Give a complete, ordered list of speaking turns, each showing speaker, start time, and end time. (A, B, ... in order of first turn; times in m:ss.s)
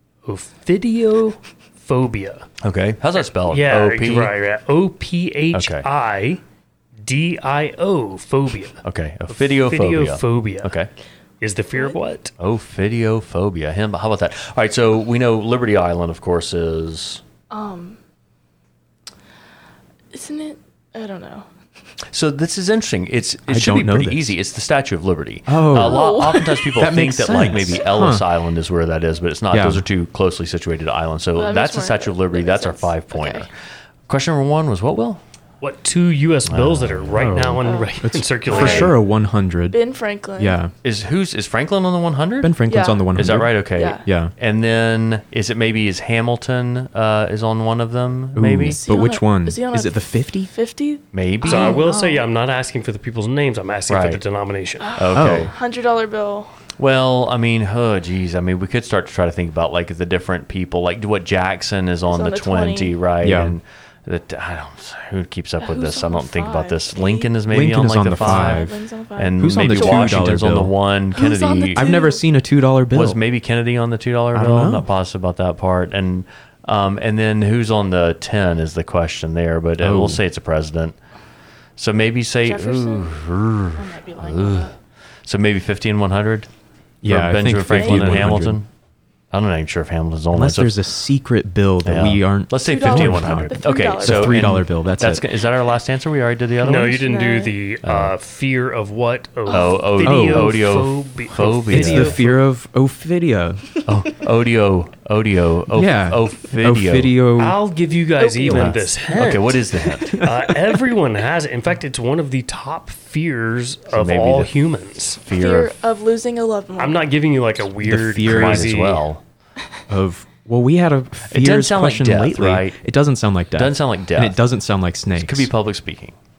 0:00.2-0:02.5 A
0:02.6-0:04.3 B
0:03.5-0:06.4 A
0:05.5-0:05.9 B
0:07.0-0:10.7 A
0:08.8-0:10.9 B
0:11.4-0:12.3 A
0:12.4-0:17.2 B
0:17.5-0:18.0 C
0:20.1-0:21.5 C
0:22.1-0:33.5 B
0:23.5-0:24.4 D
0:25.5-0:26.2 D
0:25.7-0:26.7 C
0:26.8-0:28.2 D
0:29.5-0:29.8 D
0:31.4-0:33.5 C
0:34.1-0:35.2 B
0:35.6-0:39.0 A
0:36.5-0:37.3 B
0:37.2-0:39.8 D
0:37.6-0:38.0 C
0:38.5-0:38.9 B
0:39.7-0:40.6 C
0:40.4-0:40.7 D
0:40.8-0:42.6 B
0:42.4-0:44.3 D
0:42.7-0:44.0 C
0:43.2-0:48.8 B
0:48.4-0:50.5 D
0:48.6-0:52.2 C
0:51.1-0:51.8 B
0:51.4-0:54.9 A
0:53.9-0:54.2 B
0:54.8-0:56.5 C
0:55.0-0:55.5 B
0:55.1-0:55.5 D
0:56.8-1:11.9 B
1:02.1-1:03.0 C
1:03.2-1:03.6 D
1:05.6-1:07.3 C
1:07.5-1:08.8 D
1:08.2-1:10.4 C
1:09.4-1:10.7 D
1:11.2-1:12.2 C
1:11.7-1:13.2 D
1:12.9-1:21.0 B
1:14.3-1:14.9 D
1:19.8-1:20.2 D
1:21.8-1:24.7 B
1:22.4-1:23.1 C
1:23.8-1:24.7 C
1:25.3-1:26.5 B
1:27.0-1:28.6 D
1:27.0-1:28.7 B
1:27.7-1:28.3 C
1:29.3-1:30.8 B
1:30.3-1:35.2 D
1:31.8-1:37.0 B
1:32.6-1:34.6 C
1:36.6-1:42.4 A
1:36.6-1:37.6 C
1:37.8-1:38.1 B
1:39.5-1:39.8 C
1:39.5-1:42.2 B
1:40.0-1:40.6 D
1:41.7-1:43.8 D
1:43.9-1:47.1 B
1:45.7-1:47.6 D
1:47.4-1:55.2 A
1:48.2-1:48.8 C
1:48.5-1:48.8 D
1:48.5-1:50.2 B
1:50.0-1:50.6 D
1:53.9-1:54.6 B
1:55.2-1:55.7 B
1:55.3-1:57.1 C
1:56.8-1:59.0 A
1:57.8-1:58.7 D
1:58.2-1:59.2 B
1:59.9-2:05.5 D
2:01.3-2:02.8 B
2:03.6-2:04.4 B
2:05.1-2:06.2 B